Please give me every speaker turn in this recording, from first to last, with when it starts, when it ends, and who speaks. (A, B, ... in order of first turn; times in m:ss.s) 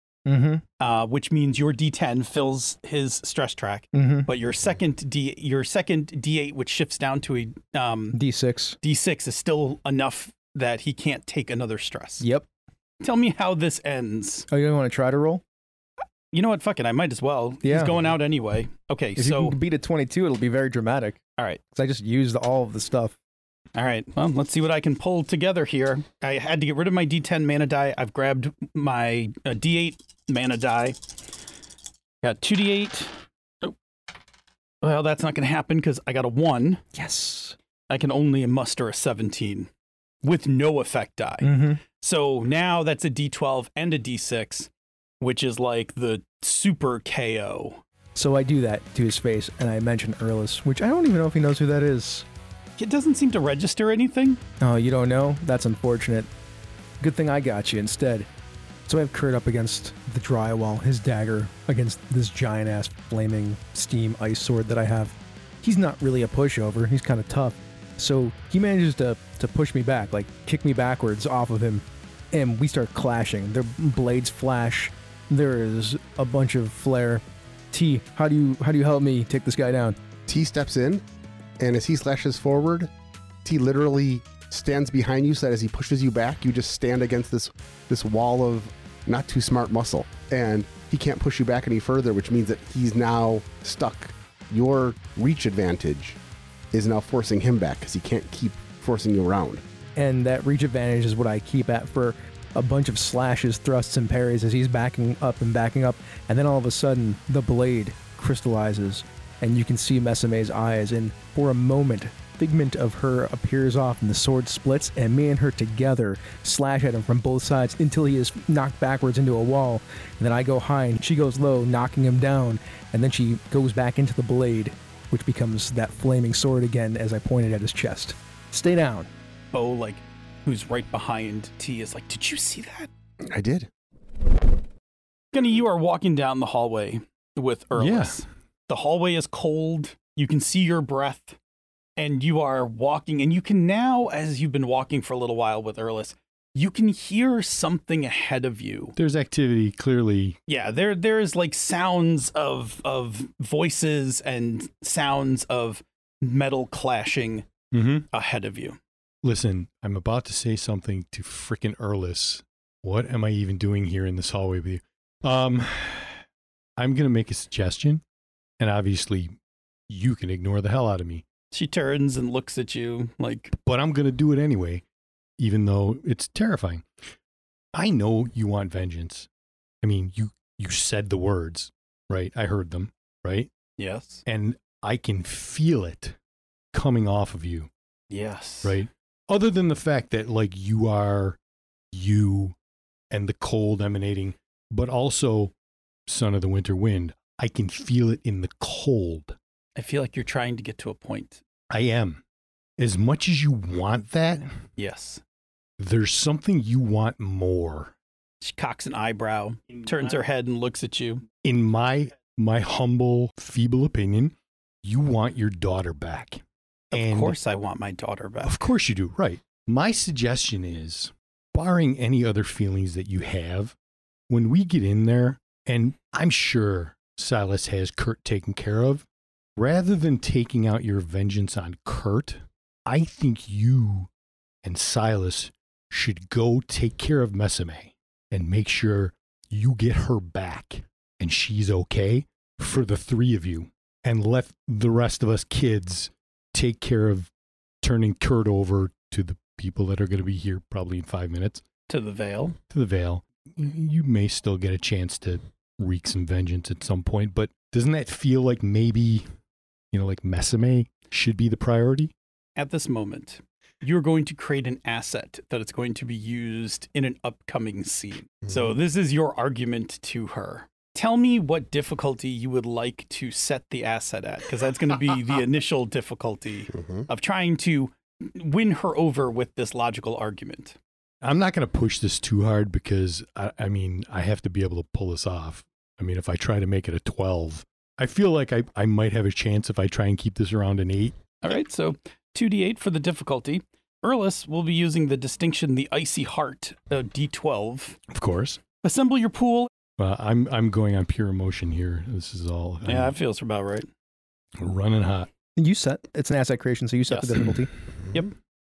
0:00.2-0:00.6 A
0:00.8-0:08.2 B
0:03.9-0:04.3 A
0:08.1-0:08.8 A
0:08.8-0:12.2 B
0:12.2-0:12.5 A
0:13.0-0:14.5 B
0:14.5-0:15.4 A
0:16.3-0:19.6 B
0:17.6-0:18.0 A
0:19.2-0:21.2 A
0:21.7-0:23.2 A
0:23.8-0:31.0 B
0:32.2-0:33.8 B
0:34.8-0:36.8 B
0:36.9-0:37.6 A
0:37.9-0:39.7 B
0:40.2-0:44.7 B
0:41.4-0:41.8 A
0:45.2-0:47.8 B
0:48.1-0:52.2 A
0:52.8-0:54.4 B
0:54.6-0:56.3 A
0:57.0-0:58.3 A
0:58.9-1:20.0 A
1:20.3-1:21.0 C
1:21.6-1:22.9 C
1:23.4-1:36.2 C
1:36.7-1:39.6 C
1:40.0-2:09.1 A
2:09.5-2:12.9 B
2:13.2-2:13.7 C
2:15.3-2:21.4 B
2:17.8-2:18.2 D
2:22.0-2:29.0 B
2:29.0-2:30.4 D
2:30.5-2:37.5 B
2:37.7-2:38.1 D
2:38.1-2:38.8 B
2:39.2-2:46.2 D
2:46.8-2:48.0 D
2:48.6-2:49.4 D
2:49.9-2:51.2 D
2:51.5-2:53.5 B
2:53.6-2:54.8 D
2:55.4-2:56.9 D
2:57.7-2:59.3 D
2:59.8-3:03.5 D
3:03.8-3:04.2 B
3:04.2-3:06.2 D
3:06.7-3:07.7 D
3:08.1-3:08.8 B
3:08.6-3:11.4 D
3:11.9-3:12.6 D
3:13.1-3:15.5 D
3:16.1-3:19.4 D
3:19.8-3:21.4 B
3:21.7-3:22.2 D
3:22.8-3:24.5 D
3:24.8-3:25.2 B
3:25.8-3:27.9 D
3:28.4-3:31.2 B
3:31.4-3:36.4 D
3:36.9-3:38.6 B
3:36.9-3:37.4 D
3:38.4-3:43.8 D
3:44.3-3:49.1 D
3:49.6-3:54.1 D
3:54.6-4:07.3 D
4:07.8-4:11.6 D
4:11.9-4:12.6 B
4:12.7-4:19.3 D
4:19.9-4:22.1 D
4:22.6-4:40.8 B
4:36.8-4:37.1 C
4:41.2-4:51.4 D
4:51.4-4:58.0 B
4:58.1-4:58.6 D
4:58.8-4:59.7 B
5:00.0-5:03.1 D
5:02.8-5:03.9 B
5:04.6-5:05.3 D
5:05.6-5:07.7 A
5:07.1-5:07.5 B